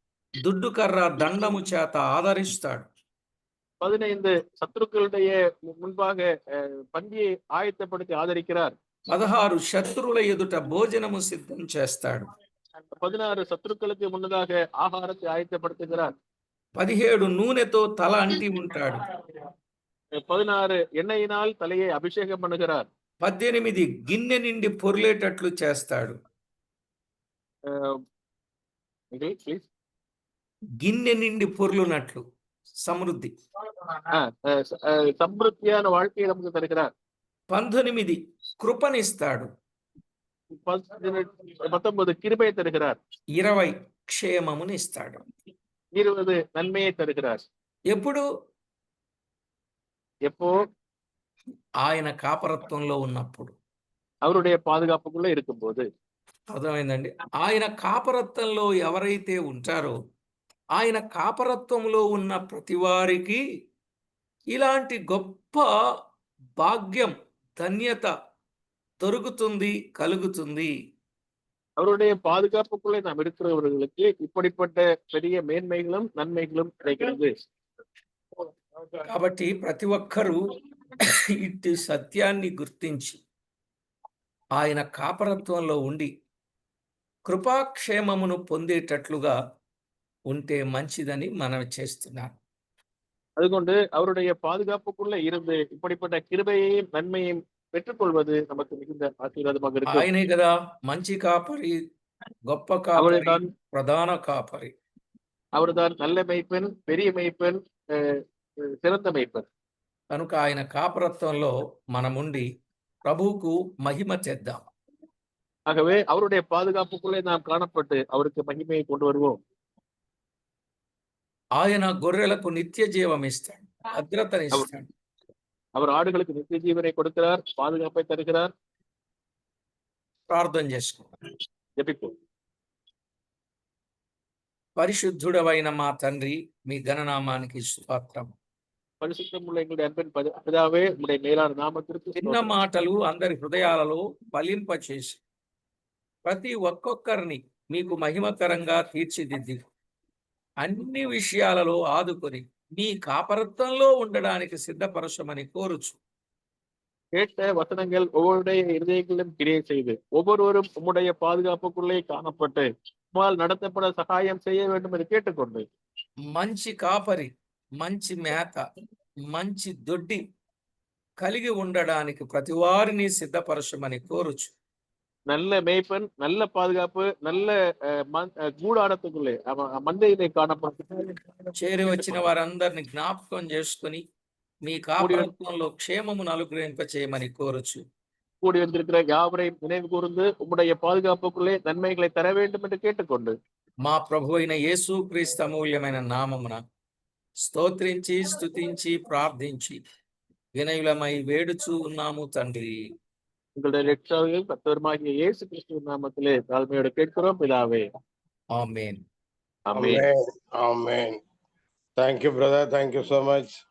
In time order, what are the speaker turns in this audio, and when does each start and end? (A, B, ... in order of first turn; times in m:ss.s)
0:00.4-0:02.9 A
0:03.8-0:08.7 B
0:09.1-0:12.3 A
0:13.0-0:16.1 B
0:16.8-0:19.0 A
0:20.2-0:22.9 B
0:23.2-0:26.2 A
0:27.7-0:28.0 B
0:29.1-0:29.7 B
0:30.8-0:32.2 A
0:32.8-0:33.3 A
0:34.1-0:36.9 B
0:37.5-0:39.5 A
0:40.5-0:43.0 B
0:43.4-0:45.2 A
0:45.9-0:47.4 B
0:47.9-0:48.2 A
0:50.3-0:50.6 B
0:51.8-0:53.6 A
0:54.2-0:55.8 B
0:56.5-1:00.0 A
1:00.8-1:03.4 A
1:04.5-1:05.7 A
1:06.6-1:08.1 A
1:09.0-1:10.7 A
1:11.8-1:17.3 B
1:19.0-1:20.4 A
1:21.1-1:23.2 A
1:24.6-1:26.1 A
1:27.3-1:29.4 A
1:30.3-1:32.3 A
1:33.4-1:40.1 B
1:39.9-1:41.8 A
1:42.5-1:44.7 A
1:43.0-1:43.4 B
1:45.5-1:47.6 B
1:48.8-1:49.5 B
1:50.1-1:52.4 A
1:53.0-1:54.7 A
1:55.7-1:59.4 B
2:01.6-2:04.8 A
2:05.8-2:08.5 B
2:10.3-2:11.1 A
2:11.8-2:12.1 B
2:14.8-2:18.3 A
2:19.0-2:22.5 B
2:22.2-2:25.2 A
2:26.2-2:29.6 A
2:30.6-2:36.0 A
2:37.2-2:45.6 B
2:46.3-2:48.6 A
2:49.3-2:50.2 A
2:51.2-2:54.5 A
2:55.3-2:57.5 B
2:58.1-3:02.2 B
3:01.6-3:04.0 A
3:04.6-3:07.8 A
3:05.0-3:05.3 B
3:08.4-3:13.4 B
3:13.8-3:16.6 A
3:17.4-3:19.8 A
3:20.6-3:22.8 A
3:23.6-3:27.8 B
3:28.6-3:29.0 A
3:29.7-3:30.0 B
3:29.7-3:31.2 C
3:32.0-3:33.6 C